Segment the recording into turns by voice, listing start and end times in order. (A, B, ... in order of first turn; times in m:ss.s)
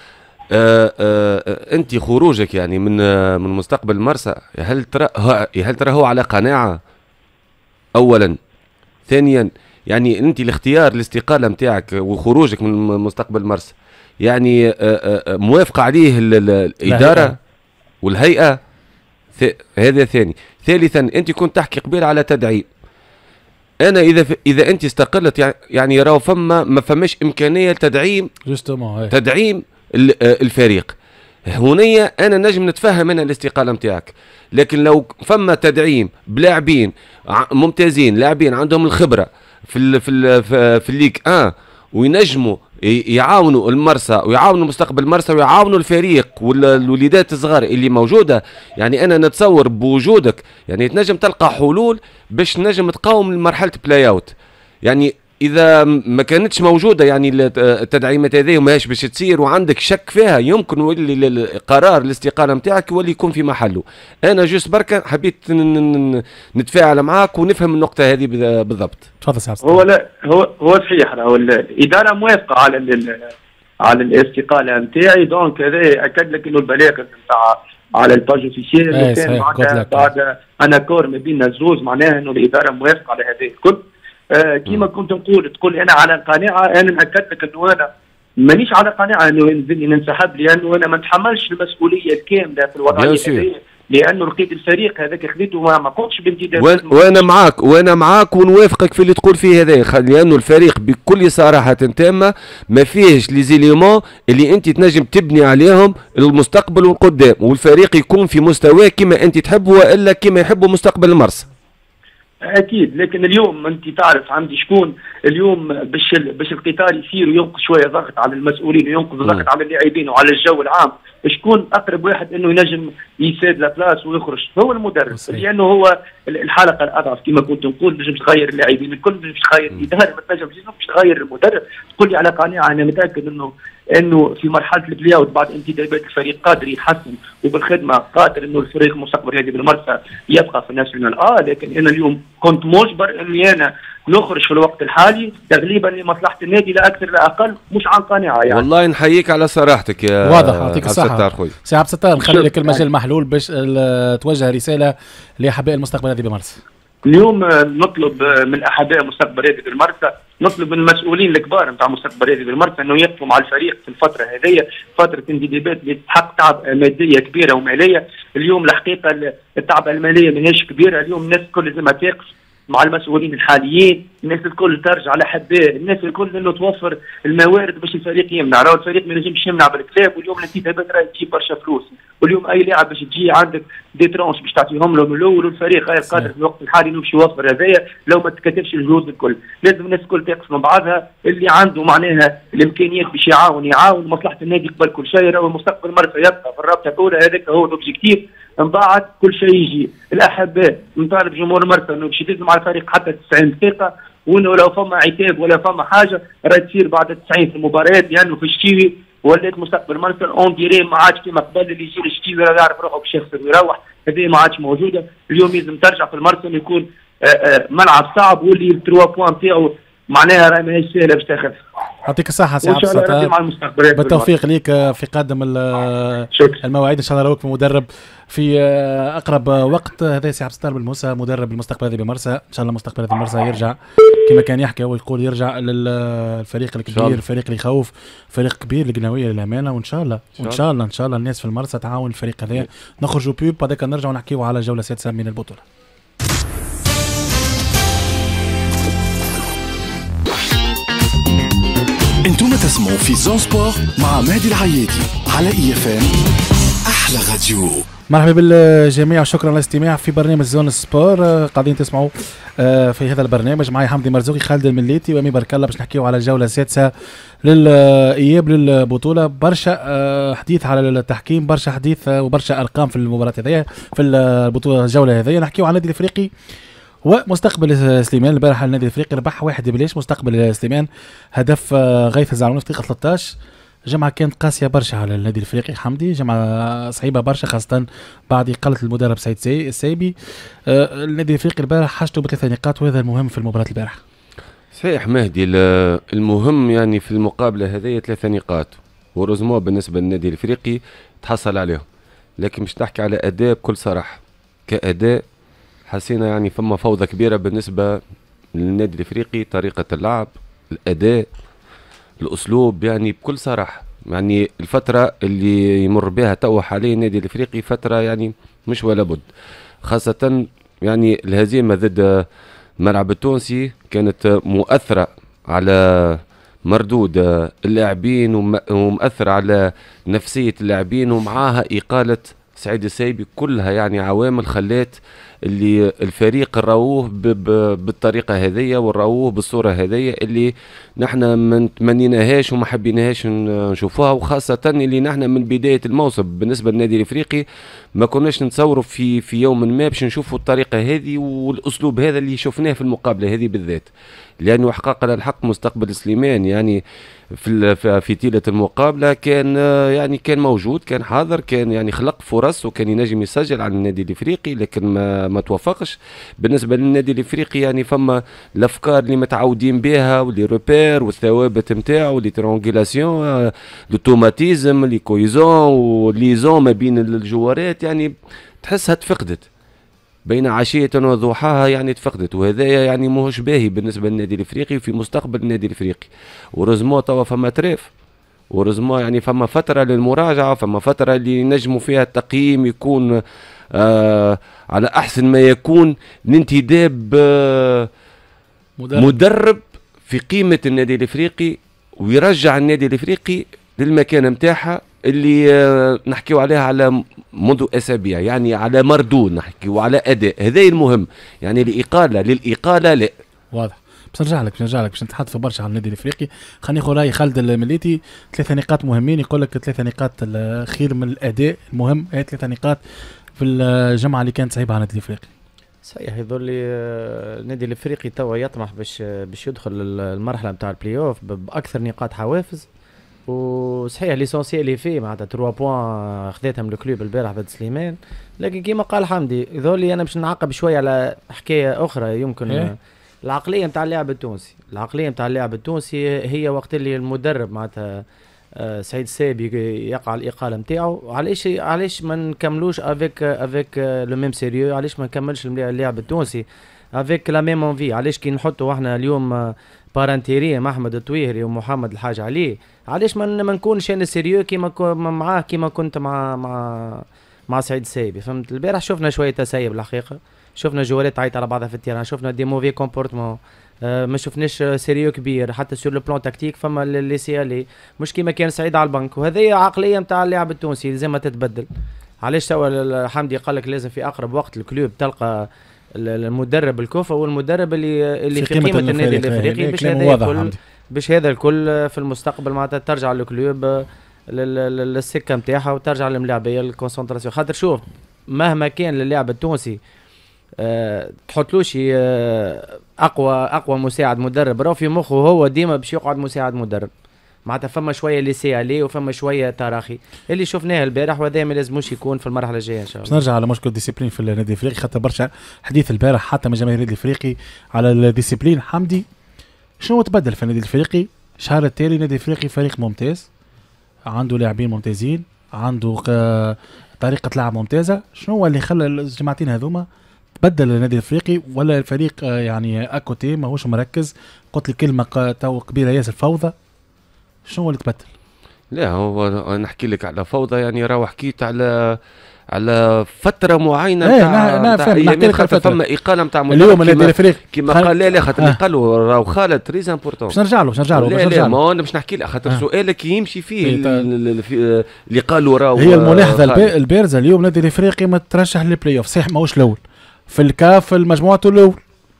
0:00.5-0:06.8 A
0:08.0-0:08.4 A
0:09.1-0:17.4 A
0:16.9-0:17.4 B
0:18.0-0:18.6 A
0:19.4-0:22.6 A
0:23.8-0:28.3 A
0:28.5-0:29.1 B
0:29.1-0:30.9 A
0:31.5-0:54.3 A
0:54.8-1:09.0 A
1:09.2-1:09.8 B
1:09.6-1:13.2 C
1:13.8-1:23.8 C
1:18.9-1:20.1 B
1:24.3-1:27.9 C
1:28.4-1:37.2 C
1:32.9-1:33.5 A
1:36.6-1:51.5 A
1:52.5-2:28.7 C
2:05.1-2:05.5 B
2:28.5-2:31.5 A
2:30.2-2:36.6 B
2:32.2-2:32.8 C
2:37.1-3:41.6 C
3:06.1-3:06.3 B
3:42.0-3:43.3 B
3:42.6-3:44.3 C
3:43.9-4:05.6 B
3:56.9-3:57.2 A
4:12.2-4:16.3 D
4:16.8-4:17.9 D
4:18.1-4:26.9 B
4:27.4-4:36.3 B
4:37.1-4:43.4 B
4:43.9-4:50.1 B
4:50.7-4:54.0 B
4:54.8-5:01.8 A
5:02.4-5:05.2 A
5:05.9-5:08.0 A
5:08.6-5:11.2 A
5:12.2-5:19.2 A
5:19.9-5:22.2 A
5:22.8-5:35.0 A
5:35.5-5:47.4 A
5:48.0-5:53.9 A
5:54.4-5:56.8 A
5:57.4-6:18.1 A
6:18.6-6:19.5 A
6:20.2-6:27.9 A
6:28.5-6:33.1 A
6:33.8-6:37.9 A
6:38.8-6:39.2 B
6:39.0-6:53.1 A
6:53.5-7:02.8 B
7:03.4-7:05.3 B
7:05.9-7:12.6 E
7:13.3-7:28.0 E
7:28.6-7:36.4 E
7:37.0-8:01.7 E
8:02.2-8:19.8 E
8:08.3-8:10.6 B
8:20.6-8:26.9 E
8:27.5-8:33.2 E
8:33.0-8:39.0 B
8:39.8-8:43.2 B
8:44.1-8:49.9 B
8:50.4-8:56.5 B
8:57.5-8:58.1 B
8:58.7-9:02.0 A
9:02.5-9:10.4 A
9:04.0-9:05.8 B
9:06.5-9:08.6 B
9:10.3-9:11.6 B
9:10.9-9:16.7 A
9:13.6-9:14.0 B
9:15.8-9:21.8 B